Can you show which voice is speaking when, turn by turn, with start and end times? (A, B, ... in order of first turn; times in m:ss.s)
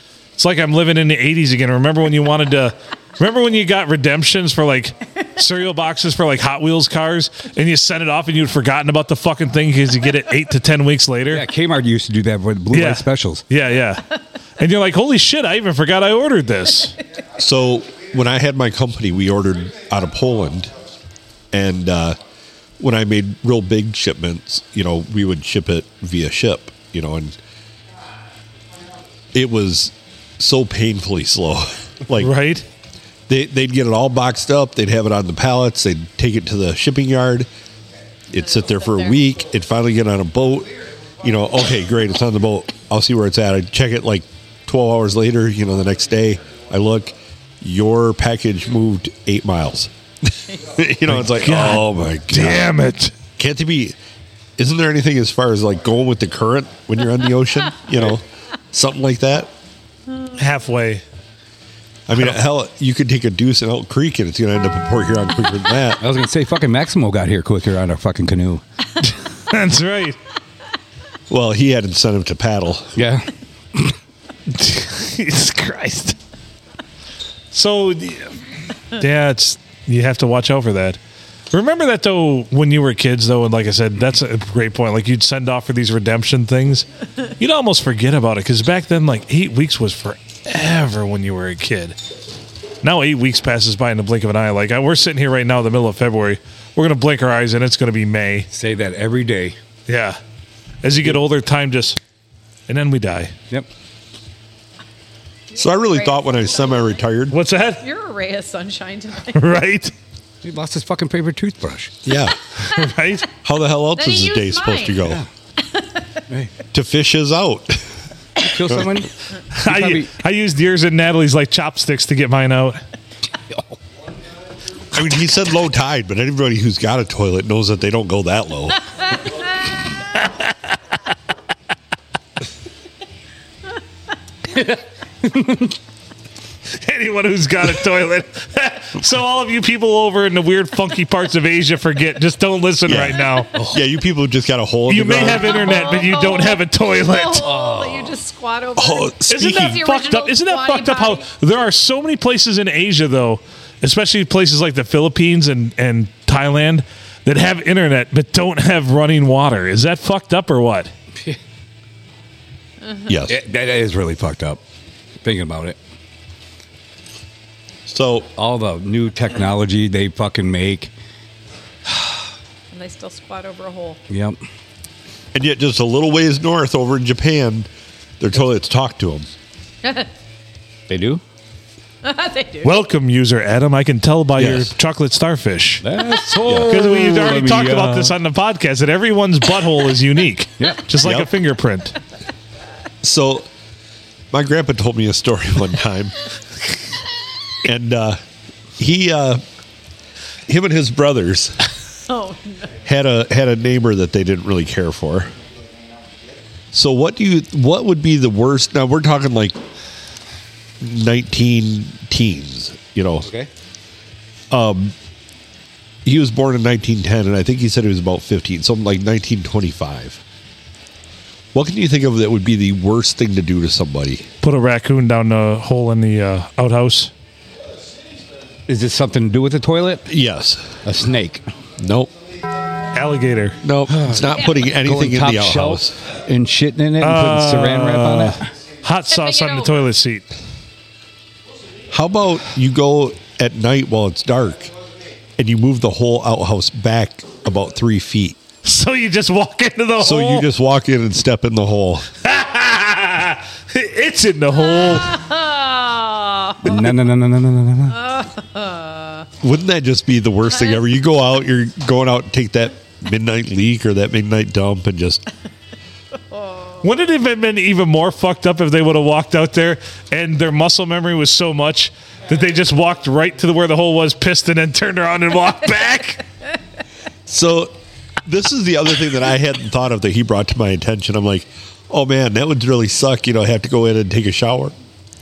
0:00.4-0:11.4 A
0:11.3-0:13.4 B
0:12.7-0:14.0 A
0:14.6-0:17.0 A
0:17.4-0:20.7 C
0:21.5-0:22.2 C
0:22.8-0:27.3 C
0:29.3-0:32.3 C
0:32.2-0:32.6 A
0:33.3-0:37.5 C
0:38.3-0:52.7 C
0:38.4-0:39.2 D
0:51.1-0:53.1 A
0:53.4-0:54.0 C
0:54.6-0:59.5 C
1:00.4-1:01.0 A
1:02.1-1:06.0 C
1:06.0-1:08.6 B
1:09.0-1:10.2 A
1:11.3-1:12.9 C
1:13.0-1:13.9 B
1:14.5-1:16.2 A
1:17.5-1:18.4 A
1:18.9-1:21.0 A
1:21.5-1:32.0 A
1:32.8-1:38.5 A
1:38.5-1:39.6 B
1:39.9-1:40.2 A
1:40.8-1:42.0 A
1:42.7-1:43.3 A
1:45.5-1:47.0 D
1:45.6-1:47.4 C
1:47.3-1:47.8 A
1:47.8-1:49.4 D
1:49.3-1:49.9 A
1:50.4-1:52.0 B
1:52.0-1:52.4 C
1:52.6-1:53.3 A
1:53.4-1:55.2 C
1:54.0-1:55.0 D
1:55.6-1:56.0 D
1:56.7-1:58.0 C
1:58.4-1:59.1 B
1:58.6-1:58.9 C
1:59.5-2:02.8 A
1:59.6-2:00.1 B
2:04.9-2:08.8 C
2:10.2-2:10.5 A
2:14.5-2:15.8 B
2:16.8-2:23.5 A
2:22.9-2:25.6 C
2:24.9-2:27.4 A
2:25.5-2:31.3 D
2:27.4-2:28.2 B
2:28.8-2:29.8 C
2:29.3-2:40.9 A
2:42.8-2:43.1 D
2:43.1-2:43.4 C
2:43.3-2:44.6 B
2:45.2-2:45.8 B
2:47.9-2:48.3 C
2:48.3-2:50.9 B
2:52.7-2:54.0 D
2:54.1-2:54.4 B
2:55.3-2:57.7 C
2:58.2-2:59.3 C
2:59.8-3:00.1 D
3:00.9-3:01.2 B
3:02.0-3:02.8 D
3:02.6-3:05.9 A
3:04.4-3:04.7 C
3:05.8-3:08.2 B
3:06.4-3:06.7 C
3:06.7-3:12.0 A
3:10.6-3:10.8 B
3:11.0-3:11.3 C
3:13.0-3:13.5 C
3:14.3-3:16.2 C
3:17.6-3:18.2 C
3:18.8-3:19.4 C
3:20.5-3:21.6 C
3:22.1-3:22.8 D
3:22.8-3:25.3 C
3:26.7-3:29.6 C
3:30.8-3:33.2 C
3:33.2-3:33.5 B
3:34.5-3:34.9 C
3:36.0-3:40.2 C
3:41.5-3:44.3 C
3:44.4-3:47.1 A
3:48.7-3:50.1 B
3:50.1-3:50.8 C
3:50.8-3:51.5 B
3:51.8-3:52.1 C
3:52.9-3:53.6 A
3:53.6-3:56.0 C
3:53.9-3:58.4 B
3:57.0-4:00.3 A
3:59.1-3:59.8 D
4:01.9-4:04.7 C
4:05.4-4:08.4 C
4:08.6-4:10.5 A
4:10.0-4:12.1 C
4:12.2-4:15.2 A
4:14.6-4:16.9 D
4:16.6-4:18.0 B
4:17.9-4:19.3 D
4:19.4-4:25.2 C
4:26.3-4:26.8 D
4:26.8-4:36.2 A
4:37.3-4:37.7 C
4:38.2-4:44.7 C